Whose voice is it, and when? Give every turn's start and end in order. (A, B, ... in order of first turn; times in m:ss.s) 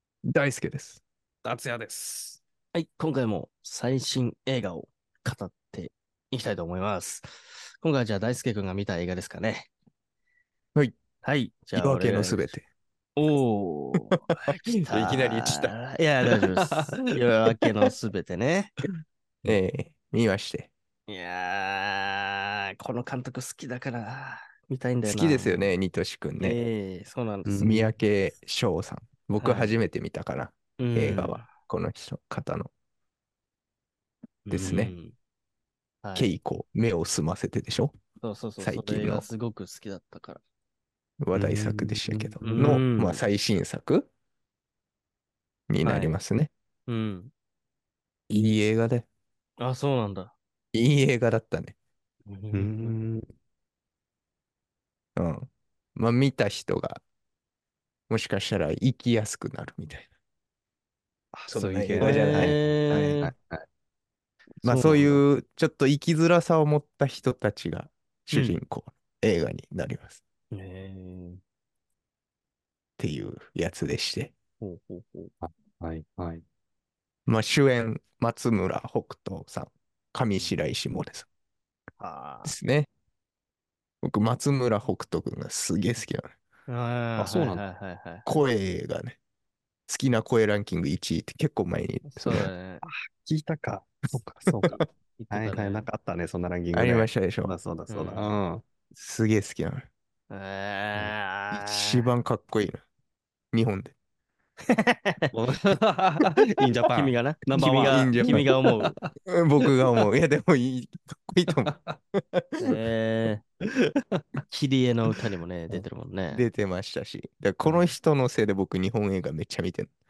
0:00.2-0:01.0 A
0:01.4-0:02.4 B
0:02.7-0:09.7 C
0:11.2-0:12.6 C
0:11.7-0:12.6 A
0:13.2-0:18.7 C
0:14.9-0:15.8 A
0:16.7-0:17.0 B
0:19.4-0:20.7 A
0:21.1-0:25.7 C
0:25.0-0:26.6 A
0:26.4-0:27.7 C
0:27.4-0:27.9 B
0:27.6-0:32.7 A
0:29.4-0:29.7 C
0:30.8-0:31.5 C
0:34.5-0:35.1 C
0:34.5-0:34.9 A
0:36.0-0:36.3 C
0:36.1-0:37.9 A
0:38.2-0:40.4 C
0:38.6-0:39.3 A
0:41.2-0:44.1 A
0:41.3-0:42.6 B
0:42.4-0:43.2 C
0:45.7-0:46.5 A
0:45.8-0:46.2 C
0:46.9-0:47.3 C
0:48.3-0:49.1 A
0:49.6-0:50.3 C
0:50.7-0:51.7 A
0:52.2-0:53.0 C
0:52.5-0:53.2 B
0:55.2-0:57.0 A
0:58.1-1:00.1 A
1:01.3-1:03.6 B
1:01.5-1:03.3 A
1:02.0-1:03.3 C
1:04.6-1:05.2 B
1:04.6-1:10.2 A
1:08.3-1:08.6 C
1:10.5-1:11.4 C
1:13.0-1:14.3 A
1:14.6-1:15.3 C
1:15.4-1:16.4 B
1:17.2-1:21.3 A
1:22.0-1:22.6 C
1:22.4-1:22.9 A
1:24.0-1:26.3 A
1:26.7-1:28.2 C
1:27.2-1:27.6 B
1:28.2-1:29.2 A
1:29.9-1:32.5 A
1:32.1-1:32.8 C
1:32.8-1:38.6 B
1:35.2-1:35.9 C
1:36.7-1:37.5 A
1:37.9-1:38.4 C
1:38.9-1:39.9 A
1:40.3-1:42.1 C
1:41.5-1:42.8 A
1:43.5-1:43.9 A
1:44.7-1:45.3 C
1:45.3-1:49.1 B
1:46.9-1:48.9 C
1:47.8-1:48.5 A
1:49.3-1:52.7 A
1:51.6-1:52.0 B
1:52.6-1:53.4 C
1:53.7-1:54.2 B
1:54.5-1:56.4 C
1:56.3-1:59.9 A